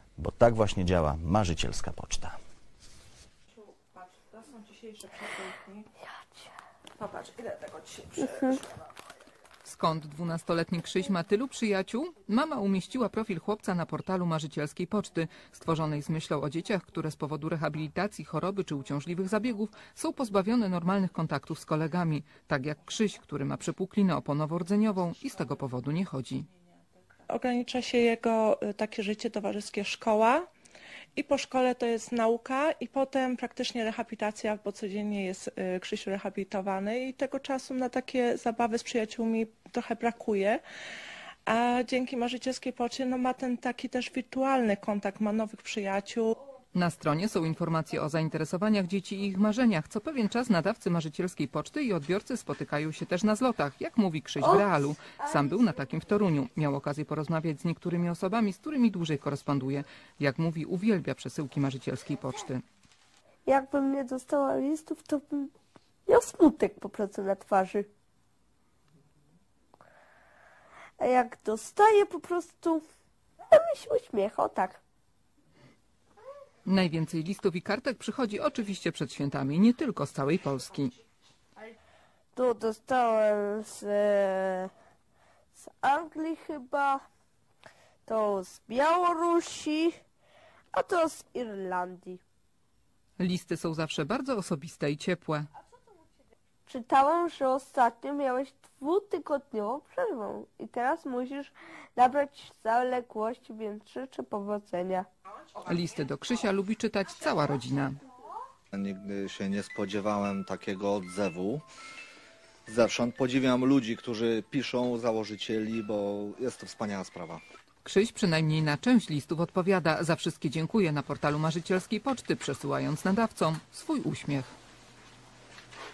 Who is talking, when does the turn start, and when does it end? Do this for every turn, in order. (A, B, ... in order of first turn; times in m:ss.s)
0:00.2-0:02.4 A
0:03.5-0:05.9 B
0:06.1-0:06.5 C
0:07.0-0:08.7 B
0:09.6-0:26.5 D
0:27.3-0:30.5 B
0:31.2-0:40.6 B
0:41.4-0:46.4 B
0:46.7-1:02.6 D
1:03.5-1:05.5 C
1:06.1-1:07.9 C
1:11.0-1:12.8 C
1:13.5-1:14.8 C
1:16.6-1:21.0 D
1:22.3-1:24.7 C
1:25.5-1:27.0 C
1:28.0-1:30.0 C
1:30.7-1:32.2 C
1:33.2-1:35.5 D
1:36.6-1:45.1 C
1:45.6-1:48.0 D
1:48.7-1:51.6 E
1:52.7-1:57.4 E
1:57.8-2:04.5 D